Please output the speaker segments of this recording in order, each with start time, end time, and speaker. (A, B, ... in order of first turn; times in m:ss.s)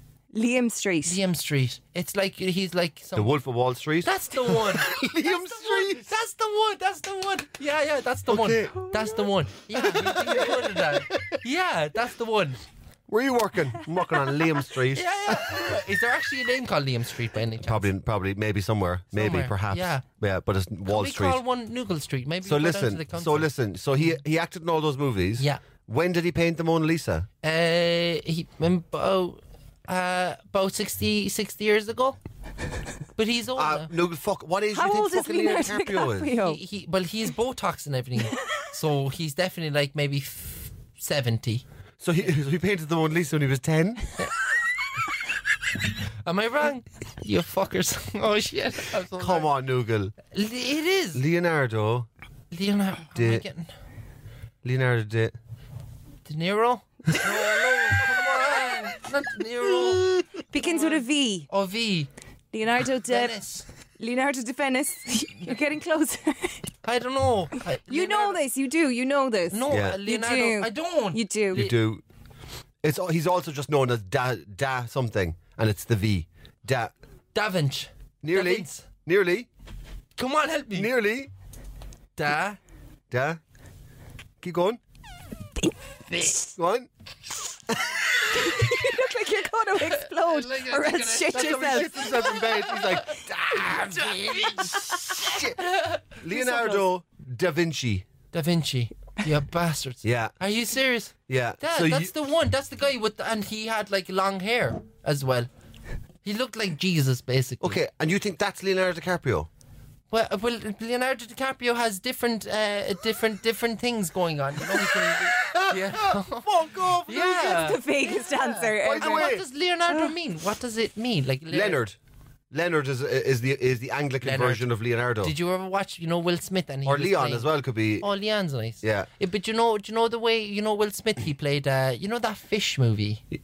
0:00.3-0:01.2 A
0:01.0-0:03.4 B
0:03.2-0:06.0 C
0:04.0-0:12.6 B
0:08.3-0:09.1 C
0:09.7-0:11.3 C
0:13.1-0:15.6 C
0:14.9-0:17.9 B
0:17.6-0:21.4 C
0:19.1-0:20.0 B
0:20.8-0:24.1 B
0:22.4-0:27.3 C
0:27.4-0:32.2 B
0:33.2-0:33.9 B
0:33.6-0:36.3 C
0:34.7-0:36.6 A
0:36.4-0:41.6 B
0:42.0-0:44.1 C
0:46.2-0:49.5 B
0:49.2-0:50.1 C
0:50.3-0:51.2 B
0:51.1-0:52.1 C
0:52.5-0:53.7 B
0:53.1-0:53.4 C
0:54.6-0:55.3 C
0:56.2-1:02.1 B
1:00.5-1:01.5 A
1:02.5-1:03.4 A
1:02.8-1:03.6 B
1:04.0-1:06.6 A
1:06.8-1:08.4 B
1:07.9-1:11.7 A
1:09.5-1:11.7 B
1:09.7-1:10.0 C
1:11.5-1:12.0 C
1:12.8-1:16.9 C
1:17.3-1:18.8 B
1:18.2-1:19.5 C
1:20.2-1:20.9 B
1:20.7-1:21.3 C
1:22.2-1:22.6 B
1:23.1-1:23.4 C
1:24.4-1:24.8 C
1:25.6-1:26.5 A
1:26.6-1:26.9 C
1:27.7-1:27.9 C
1:28.2-1:32.3 A
1:29.8-1:36.8 B
1:31.3-1:35.6 C
1:36.2-1:38.0 C
1:38.3-1:45.5 B
1:40.0-1:40.3 C
1:41.3-1:42.1 C
1:46.2-1:47.8 B
1:47.6-1:49.5 C
1:50.1-2:01.8 B
1:55.4-1:57.7 C
1:57.3-2:00.1 A
1:58.8-1:59.4 C
2:01.5-2:02.0 C
2:02.5-2:05.3 C
2:04.2-2:04.6 B
2:05.2-2:07.5 B
2:06.8-2:08.0 C
2:08.0-2:13.2 B
2:08.8-2:09.1 C